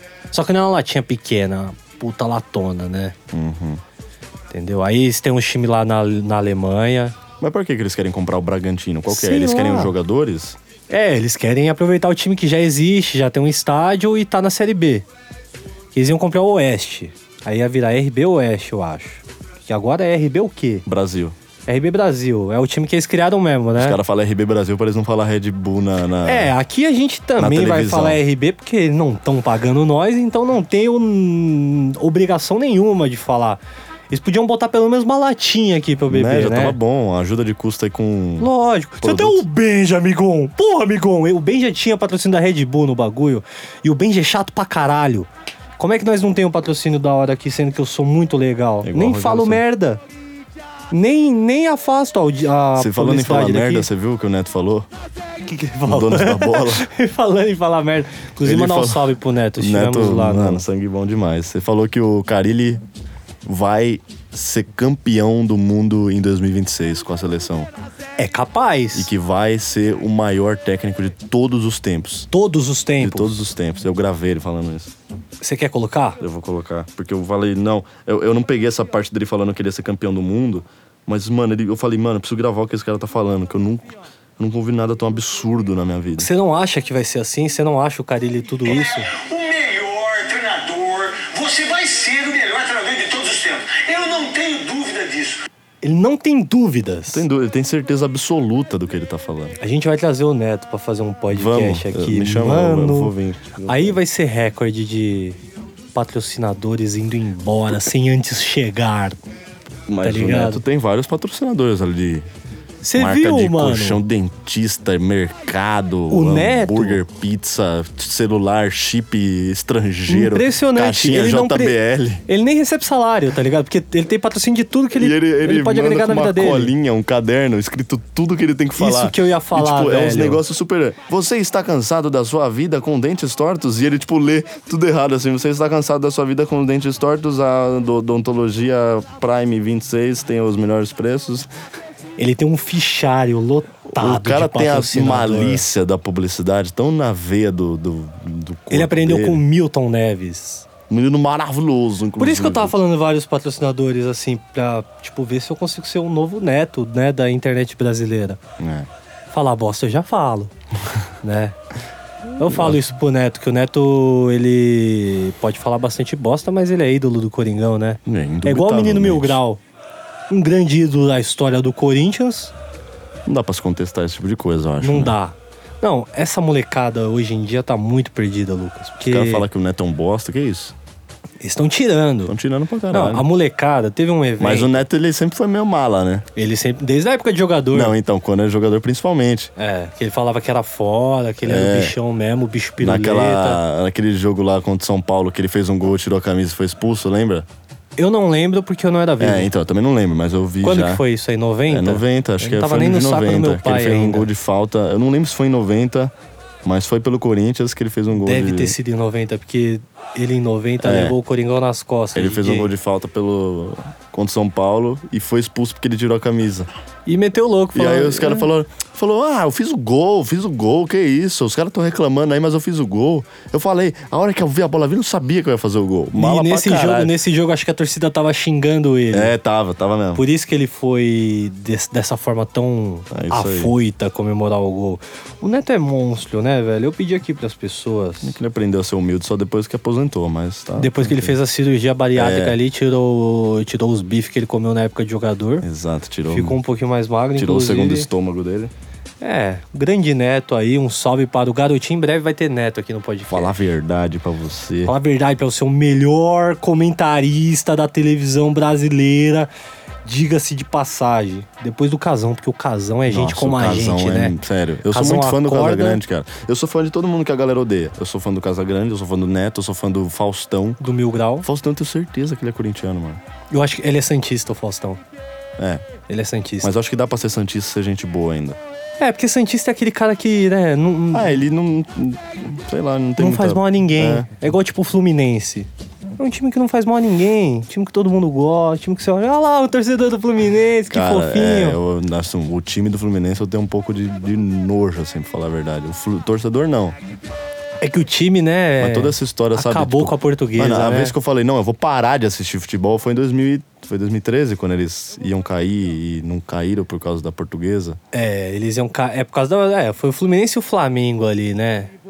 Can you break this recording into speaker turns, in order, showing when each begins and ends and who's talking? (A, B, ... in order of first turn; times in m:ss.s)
0:00.3-0:03.2 A
0:03.3-0:03.8 B
0:04.5-0:07.2 A
0:07.4-0:10.6 B
0:09.1-0:09.9 A
0:10.9-0:15.1 A
0:15.9-0:20.8 A
0:20.9-0:21.4 B
0:21.7-0:24.0 A
0:23.8-0:26.5 B
0:26.2-0:36.8 A
0:27.4-0:28.2 B
0:36.1-0:38.5 B
0:38.4-0:50.0 A
0:39.0-0:39.4 B
0:48.8-0:49.6 B
0:50.9-0:53.9 A
0:52.8-0:54.9 B
0:55.4-1:00.6 A
0:55.8-0:56.9 B
0:58.4-1:02.8 B
1:03.4-1:07.7 B
1:08.2-1:09.1 A
1:08.9-1:12.3 B
1:12.3-1:13.4 A
1:13.0-1:14.9 B
1:15.4-1:16.2 A
1:16.2-1:26.3 B
1:26.2-1:29.1 A
1:28.7-1:35.5 C
1:35.8-1:37.2 A
1:37.1-1:39.6 B
1:39.6-1:43.1 A
1:41.3-1:44.0 B
1:43.7-1:45.4 A
1:46.0-1:49.2 A
1:49.9-1:52.3 B
1:50.0-1:50.6 A
1:52.8-1:54.0 A
1:53.0-2:02.2 B
1:56.1-1:57.0 A
2:00.1-2:06.7 A
2:05.0-2:21.5 B
2:08.8-2:10.4 A
2:22.2-2:25.6 A
2:23.9-2:29.4 B
2:28.7-2:30.7 A
2:30.9-2:32.8 B
2:32.2-2:38.4 A
2:38.6-2:38.9 B
2:39.3-2:40.5 A
2:41.2-2:41.6 A
2:42.4-2:49.6 A
2:42.4-2:42.8 B
2:48.1-2:49.4 B
2:50.3-2:52.5 A
2:53.2-2:55.2 B
2:54.8-2:59.5 A
2:59.0-3:00.8 B
3:01.4-3:02.3 A
3:02.3-3:03.3 B
3:02.9-3:04.8 A
3:04.4-3:06.2 B
3:06.4-3:08.0 A
3:07.7-3:09.5 B
3:09.6-3:13.6 A
3:11.4-3:12.0 B
3:12.8-3:17.5 B
3:18.0-3:19.5 A
3:19.2-3:21.0 B
3:20.6-3:24.3 A
3:21.7-3:26.1 B
3:26.6-3:28.8 B
3:28.2-3:32.7 A
3:30.8-3:31.2 B
3:32.2-3:36.7 B
3:37.1-3:38.5 A
3:37.7-3:47.2 B
3:46.2-3:49.3 A
3:49.1-3:50.2 B
3:50.2-3:58.4 A
3:53.1-3:53.7 B
3:58.2-4:01.4 B
4:00.8-4:05.7 A
4:02.2-4:02.6 B
4:05.6-4:06.6 B
4:06.3-4:08.1 A
4:07.4-4:08.7 B
4:09.2-4:13.5 A
4:13.3-4:14.9 B
4:14.8-4:19.5 A
4:20.0-4:24.4 A
4:23.1-4:30.8 B
4:24.9-4:26.0 A
4:30.8-4:31.5 A
4:31.4-4:33.2 B
4:33.5-4:35.0 A
4:35.6-4:35.9 B
4:36.1-4:36.7 A
4:36.6-4:38.6 B
4:39.0-4:41.4 A
4:41.1-4:44.3 B
4:43.2-4:51.8 A
4:50.9-4:57.0 B
4:57.8-5:01.2 A
4:58.8-5:08.0 B
5:08.1-5:11.9 A